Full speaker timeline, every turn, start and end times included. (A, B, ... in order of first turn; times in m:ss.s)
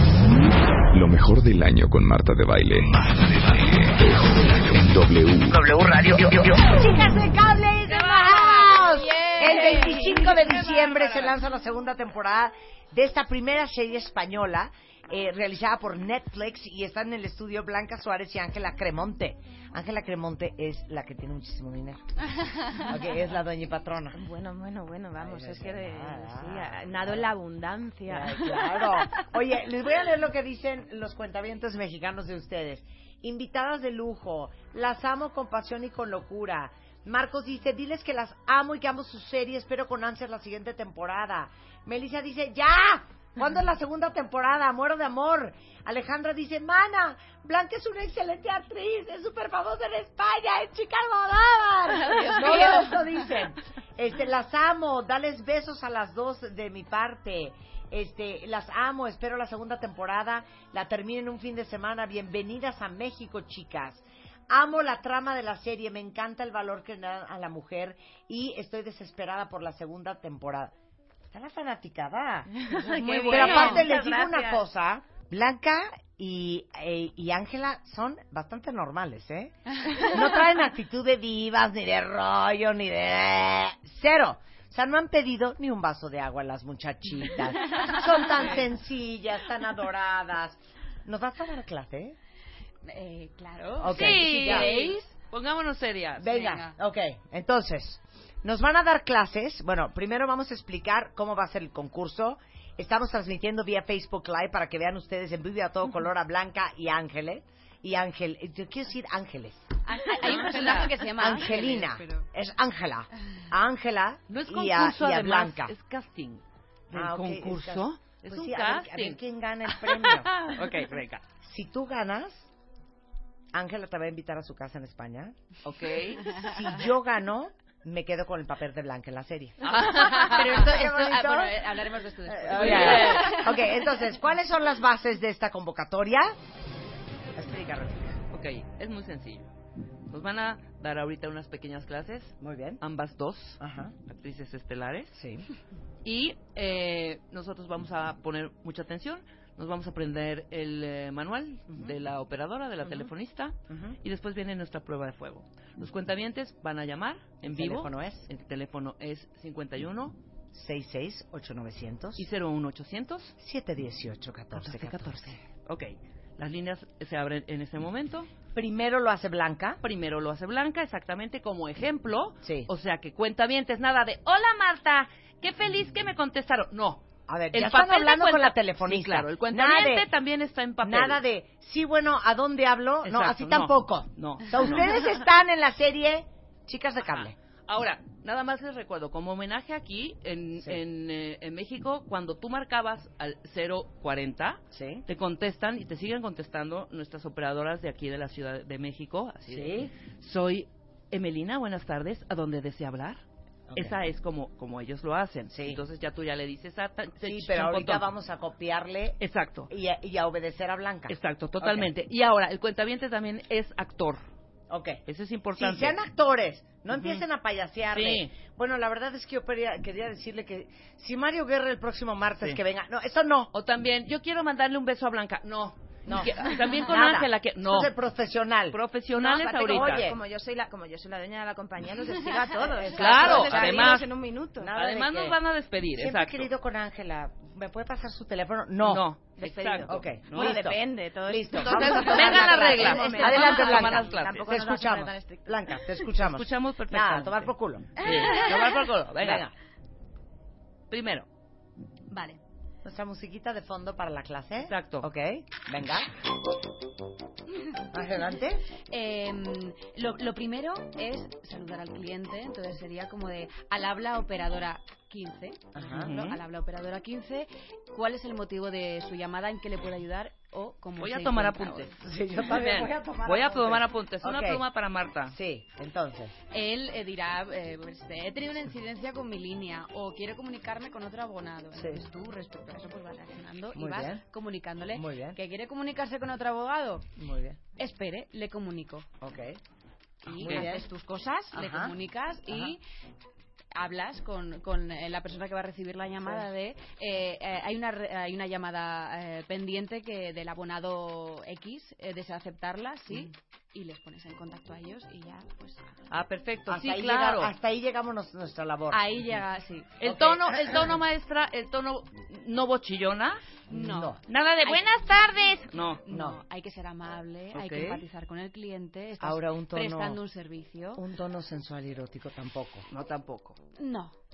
0:00.9-0:05.7 A
0:05.8-0:22.0 B
0:07.9-0:11.0 C
0:22.8-0:24.2 B
0:24.1-0:29.2 D
0:25.2-0:27.3 B
0:28.1-1:10.7 B
1:11.3-1:12.5 B
1:12.6-1:14.6 D
1:12.7-1:13.8 C
1:13.3-1:32.2 B
1:32.8-1:35.1 C
1:33.8-1:34.7 B
1:33.8-1:36.4 E
1:36.2-1:49.7 B
1:36.3-1:36.7 C
1:49.8-1:52.3 C
1:50.2-1:50.9 E
1:51.1-1:55.7 B
1:54.3-2:01.2 E
1:56.9-2:00.5 B
2:01.4-2:02.5 B
2:03.5-2:05.4 B
2:05.6-2:06.3 E
2:06.3-2:11.6 B
2:09.6-2:10.7 E
2:09.9-2:13.8 C
2:12.2-2:16.3 B
2:12.5-2:13.4 E
2:17.4-2:18.2 B
2:18.3-2:19.5 E
2:20.1-2:25.1 E
2:22.4-2:22.8 B
2:23.6-2:23.9 B
2:25.1-2:25.5 B
2:26.0-2:40.2 E
2:33.7-2:34.0 B
2:37.4-2:38.3 B
2:40.5-2:42.2 B
2:42.2-2:43.3 E
2:43.4-2:45.4 B
2:44.5-2:48.3 E
2:48.5-2:49.8 B
2:49.8-3:01.2 E
2:52.4-2:52.7 B
2:57.3-3:00.1 B
3:00.8-3:07.3 B
3:03.0-3:05.0 E
3:07.0-3:23.2 E
3:14.7-3:15.0 B
3:19.5-3:19.9 B
3:23.7-3:23.9 B
3:23.7-3:28.0 E
3:25.5-3:25.8 B
3:27.2-3:31.9 B
3:29.2-3:29.7 E
3:31.1-3:34.2 E
3:34.7-3:35.0 B
3:35.0-3:36.0 E
3:35.6-3:43.5 B
3:37.9-3:38.3 E
3:43.5-3:47.9 E
3:46.0-3:48.8 B
3:48.7-3:50.1 E
3:49.1-3:54.7 D
3:49.7-3:50.1 B
3:52.8-3:53.9 B
3:52.9-3:54.0 E
3:54.6-3:55.4 B
3:54.7-3:56.5 E
3:56.0-3:59.0 B
3:58.8-4:00.6 E
3:59.4-4:05.4 D
3:59.9-4:07.9 B
4:01.6-4:04.5 E
4:02.0-4:03.8 C
4:06.2-4:09.4 E
4:08.0-4:08.5 C
4:09.2-4:09.5 B
4:10.9-4:11.3 E
4:12.1-4:12.4 C
4:12.8-4:16.1 B
4:14.6-4:15.1 E
4:17.9-4:18.6 B
4:18.9-4:31.9 C
4:25.7-4:26.2 B
4:25.9-4:26.4 E
4:31.0-4:35.4 E
4:32.0-4:34.6 B
4:35.3-4:36.4 B
4:36.5-4:47.1 C
4:41.7-4:42.0 B
4:43.7-4:44.2 B
4:44.9-4:45.4 B
4:47.2-4:47.6 B
4:47.8-4:49.1 C
4:49.2-4:49.6 B
4:50.2-4:52.8 C
4:50.4-4:50.8 B
4:51.5-4:51.9 B
4:52.5-4:52.7 B
4:53.7-5:05.8 C
5:06.1-5:07.5 E
5:06.7-5:09.3 B
5:08.9-5:10.1 C
5:10.0-5:13.4 E
5:10.0-5:10.8 B
5:13.7-5:14.2 B
5:13.7-5:15.0 C
5:14.3-5:16.0 E
5:16.0-5:21.0 C
5:16.1-5:16.4 B
5:17.5-5:18.0 E
5:19.2-5:20.2 B
5:21.0-5:22.9 B
5:22.9-5:23.6 E
5:23.8-5:24.1 C